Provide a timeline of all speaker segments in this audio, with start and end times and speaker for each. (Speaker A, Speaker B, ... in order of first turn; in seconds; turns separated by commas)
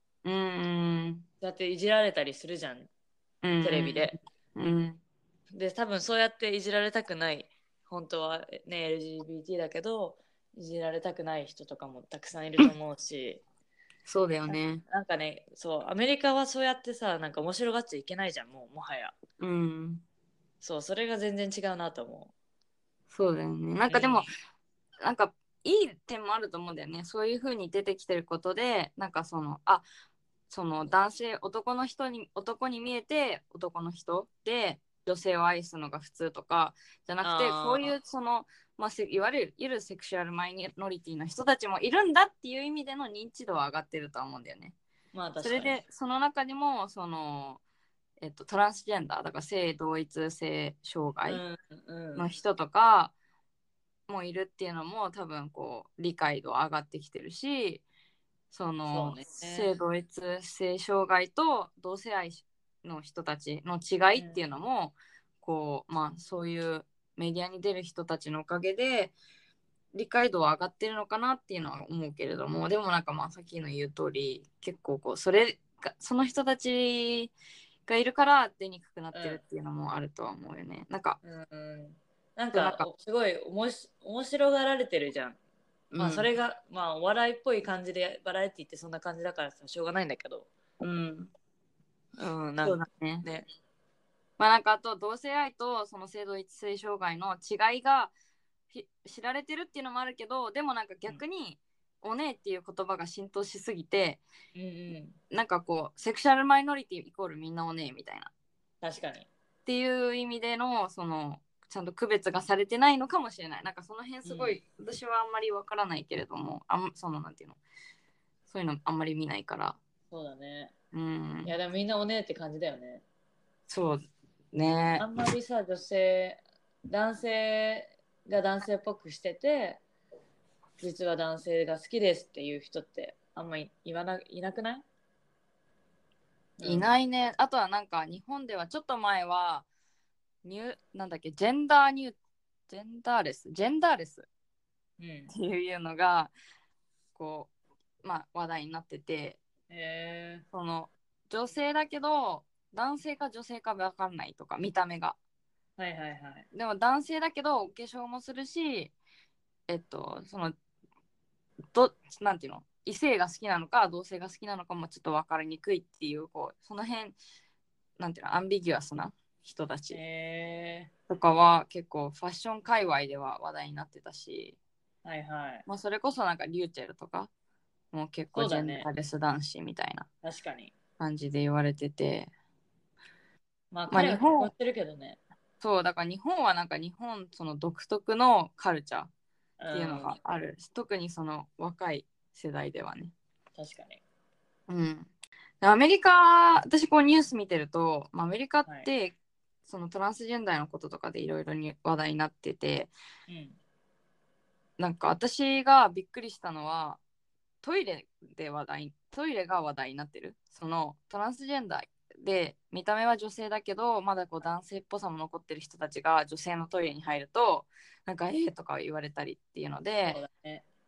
Speaker A: 0.2-1.2, Speaker B: 1.4-2.9, Speaker A: 3.4-5.0, Speaker B: 3.6-4.2, Speaker B: 5.5-13.4, Speaker A: 14.1-14.8, Speaker B: 14.5-19.2, Speaker A: 19.4-20.0, Speaker B: 20.6-22.3, Speaker A: 23.1-24.3, Speaker B: 23.9-24.3, Speaker A: 25.0-29.9, Speaker A: 30.5-44.8, Speaker B: 37.2-38.0, Speaker B: 45.1-45.8, Speaker A: 45.4-47.6, Speaker A: 48.2-51.4, Speaker B: 51.3-52.3, Speaker A: 52.1-53.1, Speaker A: 54.1-57.9, Speaker A: 58.5-69.2, Speaker B: 58.9-59.7, Speaker B: 64.2-64.4, Speaker A: 69.9-77.3, Speaker A: 77.9-81.2, Speaker B: 79.1-79.4, Speaker B: 81.2-85.4, Speaker A: 82.5-82.9, Speaker A: 85.9-86.3, Speaker B: 86.0-90.5, Speaker A: 90.8-91.3, Speaker B: 92.2-93.5, Speaker A: 92.6-93.2, Speaker A: 94.4-98.1, Speaker A: 98.7-104.2, Speaker B: 104.5-105.2, Speaker A: 105.3-108.3, Speaker B: 108.8-109.3, Speaker A: 109.7-117.6, Speaker B: 114.2-114.6, Speaker A: 118.5-119.8, Speaker B: 120.1-120.7, Speaker A: 120.9-121.5, Speaker B: 121.4-123.0, Speaker A: 123.7-125.1, Speaker B: 125.0-129.8, Speaker B: 130.8-134.8, Speaker B: 136.6-136.9, Speaker A: 136.6-139.7, Speaker A: 140.4-142.2, Speaker A: 142.7-144.3, Speaker B: 145.0-145.3, Speaker A: 145.3-146.3, Speaker A: 147.2-147.5, Speaker A: 148.0-149.4, Speaker B: 149.7-150.5, Speaker A: 150.5-155.2, Speaker B: 155.8-156.5, Speaker A: 156.5-158.9, Speaker A: 159.7-160.6, Speaker A: 161.7-167.2, Speaker A: 168.0-170.0, Speaker B: 169.9-170.9, Speaker A: 171.1-174.6, Speaker B: 175.1-175.7, Speaker A: 175.7-177.3, Speaker A: 177.9-180.1, Speaker B: 178.3-178.9, Speaker B: 180.2-180.7, Speaker A: 181.0-182.3, Speaker B: 183.7-185.2, Speaker A: 183.9-184.5, Speaker A: 185.6-189.1, Speaker B: 189.6-190.2, Speaker A: 189.7-193.1, Speaker B: 193.6-194.0, Speaker A: 194.7-195.1, Speaker A: 195.6-202.9, Speaker B: 203.3-203.6, Speaker A: 204.8-207.0, Speaker A: 207.6-220.2, Speaker B: 220.1-220.7